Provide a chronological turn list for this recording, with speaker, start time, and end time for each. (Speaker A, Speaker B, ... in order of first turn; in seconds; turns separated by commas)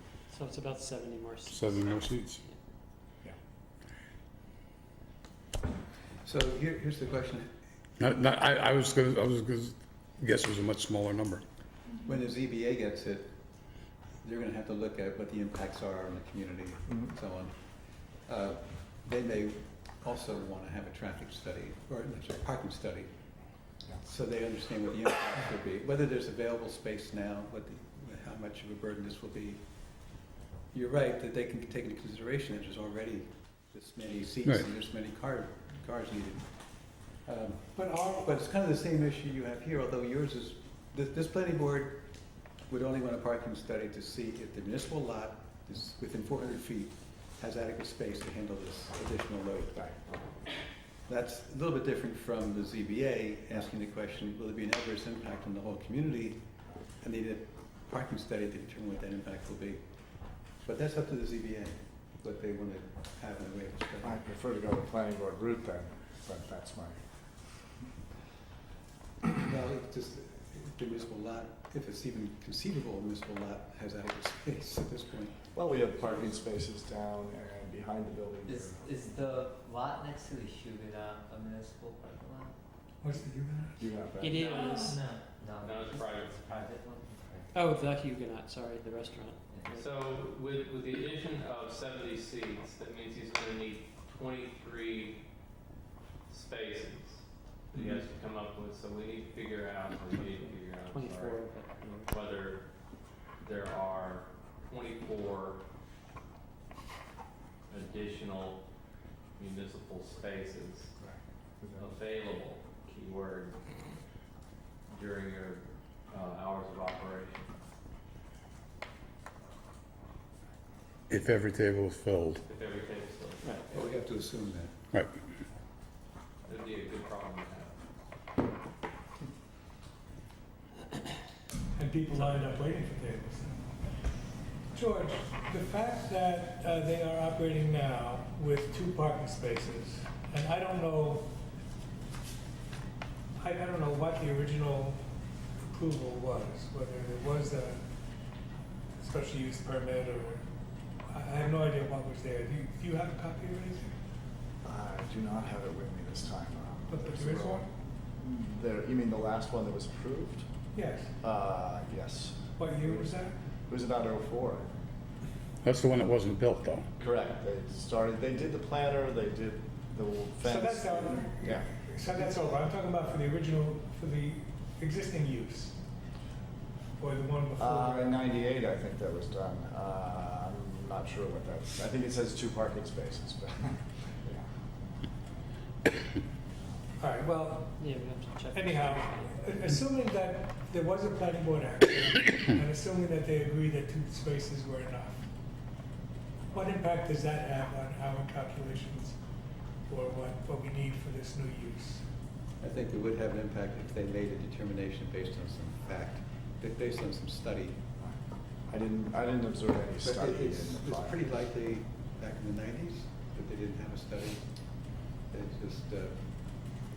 Speaker A: 0.3-2.6, Speaker B: 1.5-2.4, Speaker C: 6.2-7.5, Speaker B: 8.0-11.4, Speaker C: 12.1-13.3, Speaker C: 14.2-17.5, Speaker C: 18.2-23.1, Speaker C: 24.0-29.6, Speaker C: 30.7-36.5, Speaker C: 37.0-42.1, Speaker D: 37.8-38.1, Speaker C: 42.7-50.0, Speaker C: 51.1-56.4, Speaker C: 57.0-59.8, Speaker C: 60.6-64.2, Speaker E: 64.0-67.0, Speaker C: 69.4-76.3, Speaker E: 75.5-78.8, Speaker F: 78.5-82.5, Speaker D: 83.0-83.8, Speaker E: 83.8-84.5, Speaker A: 84.2-85.0, Speaker F: 84.2-87.5, Speaker G: 84.3-85.0, Speaker G: 85.6-86.6, Speaker A: 87.5-89.9, Speaker F: 89.5-89.9, Speaker G: 89.7-95.2, Speaker G: 96.3-101.5, Speaker A: 100.3-102.1, Speaker G: 102.0-102.7, Speaker G: 103.4-105.6, Speaker G: 107.7-108.6, Speaker G: 109.4-110.9, Speaker E: 111.0-111.9, Speaker G: 111.8-113.6, Speaker G: 114.9-117.5, Speaker B: 121.1-122.4, Speaker G: 122.5-123.5, Speaker A: 123.4-123.7, Speaker C: 123.5-124.7, Speaker G: 126.5-127.8, Speaker D: 131.8-133.7, Speaker D: 134.7-141.3, Speaker D: 143.4-145.0, Speaker D: 145.6-147.8, Speaker D: 149.0-150.4, Speaker D: 151.1-153.9, Speaker E: 154.6-157.7, Speaker D: 156.9-157.7, Speaker E: 158.2-160.4, Speaker D: 160.8-161.1, Speaker E: 161.2-162.4, Speaker D: 162.6-163.4, Speaker E: 163.7-164.7, Speaker B: 165.6-166.9, Speaker E: 167.0-171.9, Speaker D: 170.4-175.8, Speaker D: 177.0-178.2, Speaker E: 177.6-184.4, Speaker D: 187.0-187.9, Speaker A: 187.7-189.6, Speaker D: 188.5-195.3, Speaker D: 196.5-199.2, Speaker D: 199.9-202.1, Speaker C: 202.6-207.8, Speaker E: 208.7-211.2, Speaker C: 210.0-214.4, Speaker C: 215.3-216.7